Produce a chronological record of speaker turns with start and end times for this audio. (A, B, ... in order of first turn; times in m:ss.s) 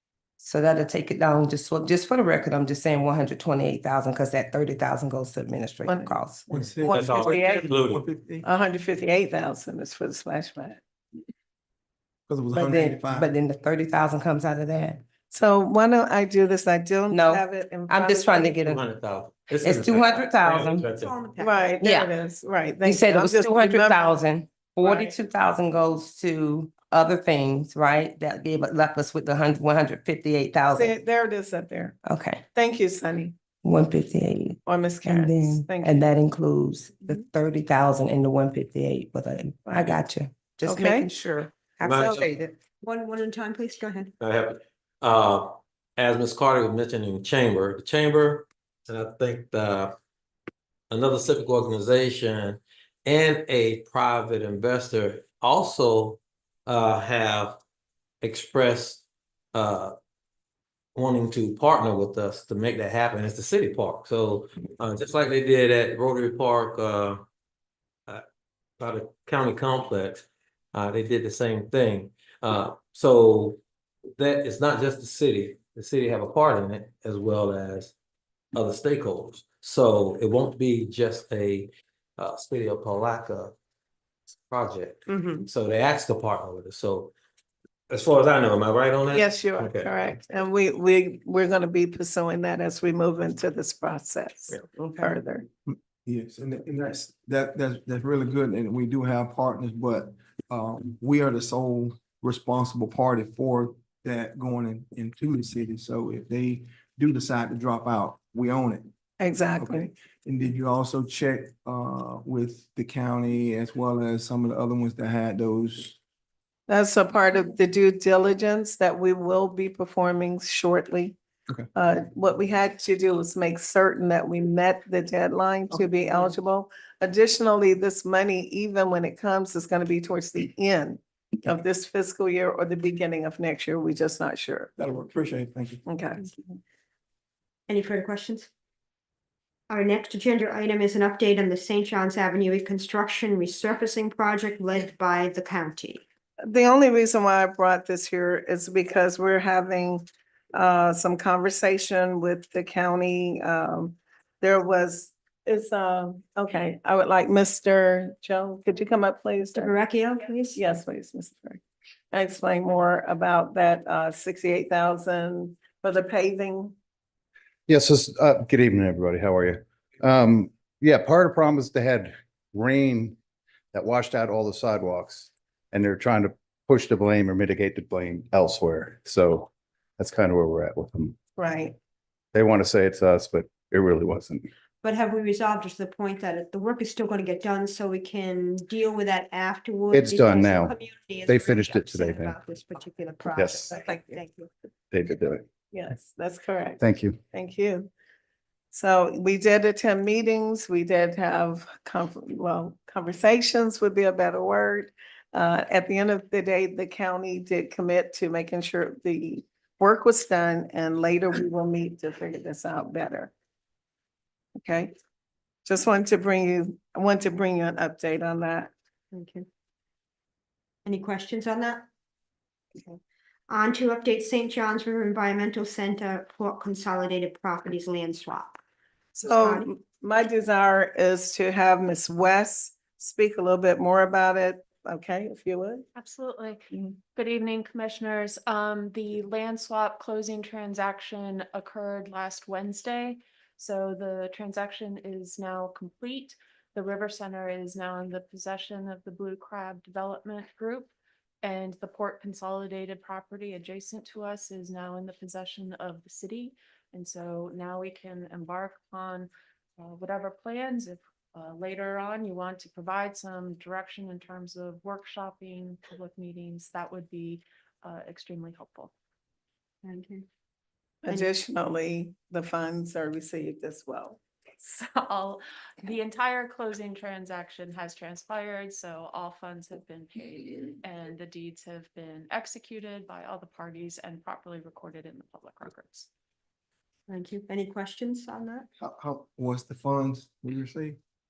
0:00.4-0:06.4 A
0:05.8-0:07.7 B
0:06.5-0:08.4 C
0:06.9-0:08.0 D
0:08.4-0:10.8 B
0:12.3-0:13.3 C
0:12.5-0:15.0 A
0:15.3-0:18.6 B
0:17.1-0:18.8 A
0:18.6-0:21.1 D
0:19.6-0:20.9 A
0:20.8-0:21.8 E
0:21.4-0:24.2 B
0:21.8-0:22.1 A
0:22.8-0:30.9 A
0:24.8-0:25.1 B
0:30.7-0:32.0 B
0:32.0-0:32.4 A
0:32.5-0:33.3 B
0:33.6-0:42.5 A
0:34.6-0:36.0 B
0:39.7-0:39.9 B
0:40.6-0:41.1 B
0:41.8-0:42.2 D
0:42.8-0:44.1 E
0:44.2-0:49.9 D
0:50.9-0:57.6 D
0:58.2-0:59.0 D
0:59.5-0:59.9 D
1:00.9-1:07.2 D
1:08.8-1:13.6 D
1:14.2-1:17.9 D
1:18.5-1:23.5 D
1:24.5-1:27.1 D
1:25.1-1:25.4 E
1:27.9-1:30.1 D
1:29.1-1:35.4 B
1:34.7-1:35.2 A
1:35.7-1:48.9 C
1:49.2-1:49.9 B
1:49.6-1:56.0 C
1:56.7-2:01.2 B
2:01.7-2:14.7 B
2:14.8-2:15.8 C
2:15.8-2:16.3 B
2:17.7-2:18.5 E
2:19.7-2:26.0 E
2:26.4-2:39.7 B
2:39.5-2:40.6 E
2:40.5-2:41.6 B
2:42.1-2:46.7 B
2:47.7-2:53.2 F
2:53.7-3:01.2 F
3:01.4-3:01.7 B
3:02.3-3:04.5 F
3:04.8-3:14.5 E
3:09.9-3:10.8 F
3:11.3-3:12.4 F
3:13.4-3:13.7 F
3:13.8-3:14.1 B
3:14.9-3:15.4 F
3:15.7-3:16.8 B
3:16.8-3:17.2 F
3:17.3-3:17.9 B
3:18.7-3:33.3 B
3:34.6-3:34.9 B
3:35.6-3:38.7 B
3:39.1-3:39.4 E
3:40.8-3:41.8 E
3:43.5-3:48.6 E
3:49.1-3:55.8 B
3:49.2-3:49.7 E
3:55.9-4:10.9 G
4:11.4-4:28.9 G
4:29.8-4:30.2 E
4:31.0-4:34.2 B
4:34.6-4:46.1 G
4:47.1-4:48.7 E
4:48.8-4:51.0 C